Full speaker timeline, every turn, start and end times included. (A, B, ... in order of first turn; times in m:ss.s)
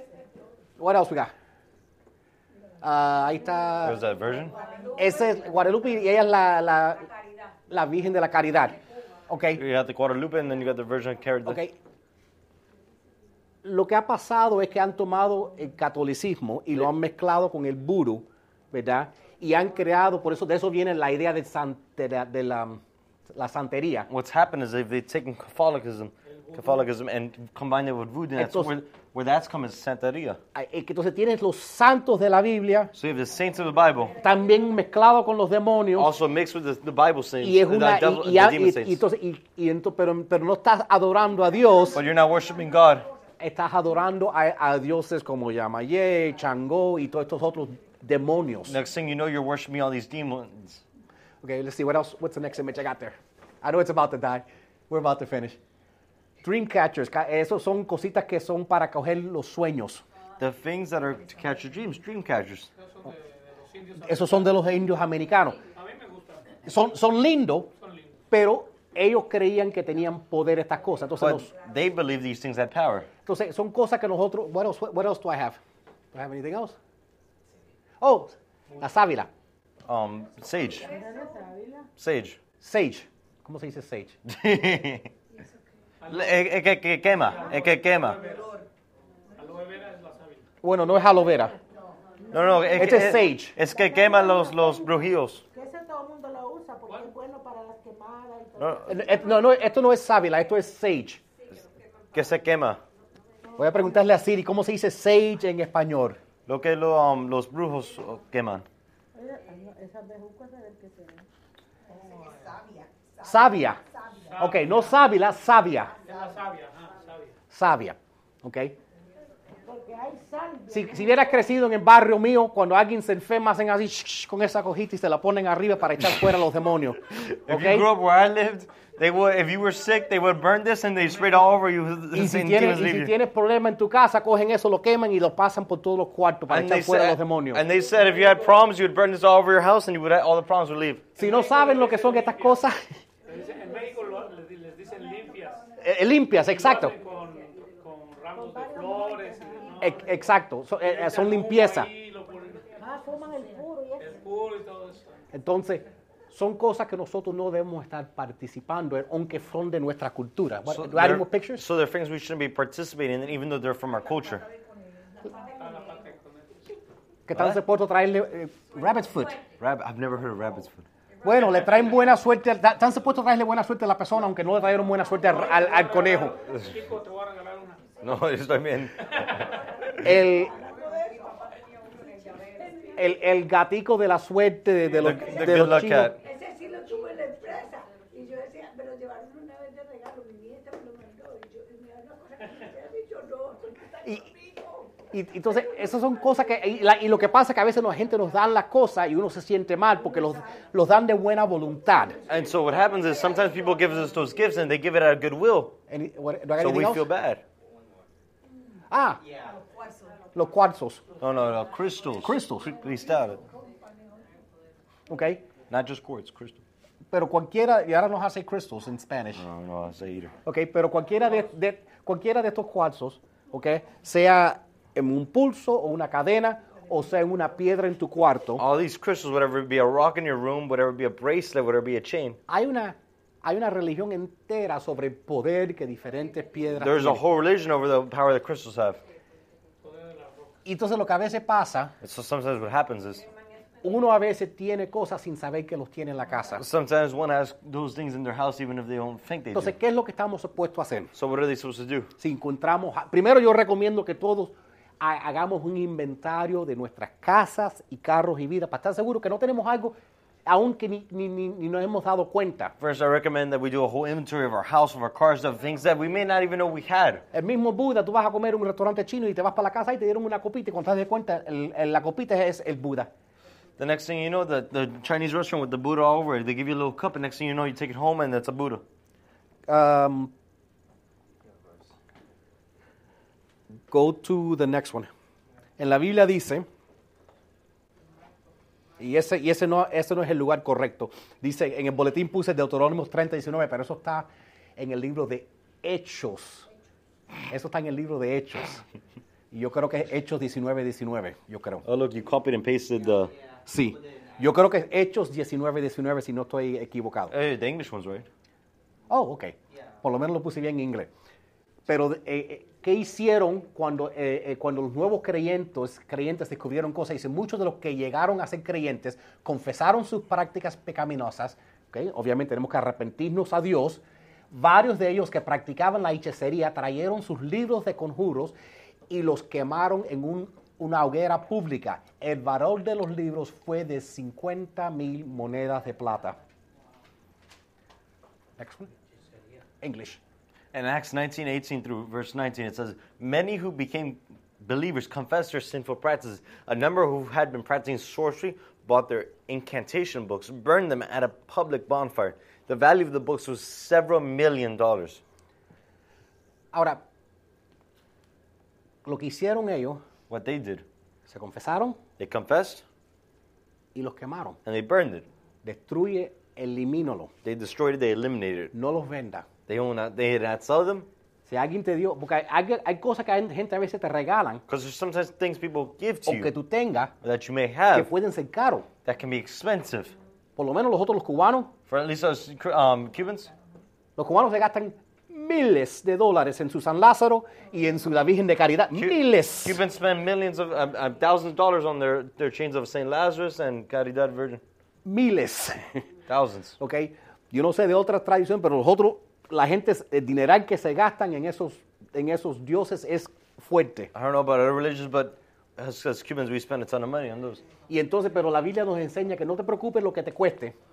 0:00.8-0:01.3 A
0:02.8-0:04.0 A
0:03.8-0:04.6 B
0:04.4-0:05.4 C
0:05.0-0:07.1 A
0:07.0-0:07.6 C
0:07.7-0:09.6 A
0:09.6-0:11.6 B
0:11.4-0:11.7 A
0:13.6-0:24.1 A
0:24.1-0:30.4 B
0:26.3-0:26.7 D
0:28.4-0:28.7 A
0:30.6-0:32.9 A
0:32.9-0:34.2 B
0:34.2-0:36.1 A
0:36.0-0:39.0 B
0:37.4-0:42.0 A
0:41.9-0:43.1 B
0:43.4-0:48.8 A
0:48.7-0:50.8 B
0:51.4-0:55.6 A
0:56.4-1:00.0 A
1:00.4-1:02.7 B
1:02.8-1:04.5 D
1:04.0-1:05.6 A
1:05.7-1:06.6 D
1:06.6-1:07.7 A
1:07.8-1:08.2 D
1:08.3-1:11.5 A
1:11.2-1:13.1 B
1:13.2-1:15.6 A
1:16.1-1:16.8 A
1:18.0-1:19.3 A
1:19.9-1:20.9 B
1:20.8-1:21.9 E
1:20.8-1:21.2 C
1:22.0-1:22.4 B
1:22.6-1:24.2 A
1:24.2-1:25.1 B
1:26.0-1:26.5 D
1:26.1-1:28.2 B
1:27.2-1:28.6 D
1:29.4-1:30.5 D
1:30.6-1:31.6 A
1:32.3-1:35.4 B
1:32.4-1:34.9 E
1:32.7-1:33.6 A
1:35.5-1:39.3 E
1:38.6-1:38.9 B
1:38.9-1:41.2 A
1:41.4-1:42.8 C
1:42.1-1:42.8 B
1:43.6-1:46.2 A
1:46.5-1:48.6 B
1:49.2-1:51.3 E
1:51.9-1:52.6 D
1:53.2-1:53.8 A
1:54.3-1:54.9 D
1:54.4-1:56.0 A
1:56.0-1:57.3 D
1:57.5-1:58.8 A
1:59.6-2:01.4 E
2:00.7-2:07.9 A
2:07.1-2:13.1 B
2:12.1-2:17.6 A
2:16.5-2:21.1 B
2:21.2-2:22.6 D
2:21.2-2:22.9 A
2:23.3-2:25.7 D
2:25.8-2:27.0 A
2:26.5-2:30.2 D
2:28.4-2:30.0 E
2:29.8-2:31.9 A
2:30.8-2:32.7 D
2:32.8-2:34.2 E
2:34.0-2:35.2 D
2:35.3-2:41.6 A
2:40.7-2:44.5 B
2:45.4-2:46.7 D
2:47.3-2:49.4 A
2:48.7-2:49.5 C
2:49.6-2:50.8 B
2:51.2-2:56.4 A
2:55.2-2:57.9 D
2:58.0-2:59.3 B
2:59.1-2:59.5 D
3:00.0-3:00.6 A
3:00.5-3:03.0 C
3:03.0-3:06.2 A
3:05.0-3:06.2 B
3:06.2-3:08.7 C
3:14.0-3:14.3 A
3:15.1-3:22.2 A
3:22.2-3:25.8 B
3:25.9-3:27.1 A
3:26.6-3:27.4 B
3:28.9-3:29.2 A
3:30.4-3:31.0 A
3:31.2-3:33.4 B
3:32.2-3:32.8 A
3:35.1-3:35.4 A
3:35.7-3:36.6 B
3:37.1-3:39.4 A
3:39.4-3:40.4 B
3:40.4-3:48.6 A
3:48.6-3:52.4 B
3:52.5-3:57.2 A
3:56.8-3:59.0 B
3:59.8-4:00.6 D
4:00.6-4:01.9 A
4:02.0-4:03.2 B
4:03.1-4:04.0 C
4:03.8-4:06.6 A
4:06.6-4:09.8 B
4:09.5-4:11.1 A
4:11.1-4:12.1 B
4:12.2-4:22.7 A
4:22.8-4:27.2 B
4:27.3-4:33.1 A
4:33.8-4:38.8 B
4:39.7-4:40.3 A
4:43.9-4:45.1 A
4:45.8-4:46.7 A
4:49.0-4:56.7 A
4:57.5-4:58.8 A
4:59.5-5:01.8 A
5:01.8-5:03.3 B
5:03.7-5:07.4 A
5:07.3-5:08.3 B
5:09.1-5:11.1 A
5:11.9-5:28.6 A
5:29.1-5:36.4 A
5:38.6-5:38.9 A
5:39.8-5:40.2 A
5:40.7-5:55.2 B
5:56.7-5:57.0 A
5:59.0-6:00.0 A
6:00.3-6:00.8 B
6:01.3-6:02.0 A
6:02.2-6:02.8 B
6:04.0-6:04.6 A
6:04.6-6:05.3 B
6:05.6-6:07.3 A
6:07.4-6:08.7 B
6:08.7-6:09.5 A
6:09.7-6:11.1 B
6:11.5-6:14.6 A
6:14.7-6:16.5 B
6:16.2-6:17.1 A
6:17.2-6:18.1 B
6:17.9-6:18.9 A
6:19.0-6:20.2 B
6:20.6-6:21.7 A
6:21.9-6:23.5 B
6:24.2-6:29.8 A
6:29.0-6:34.6 B
6:35.0-6:36.0 A
6:36.3-6:36.8 B
6:36.8-6:44.1 A
6:44.1-6:47.6 B
6:47.9-6:50.7 A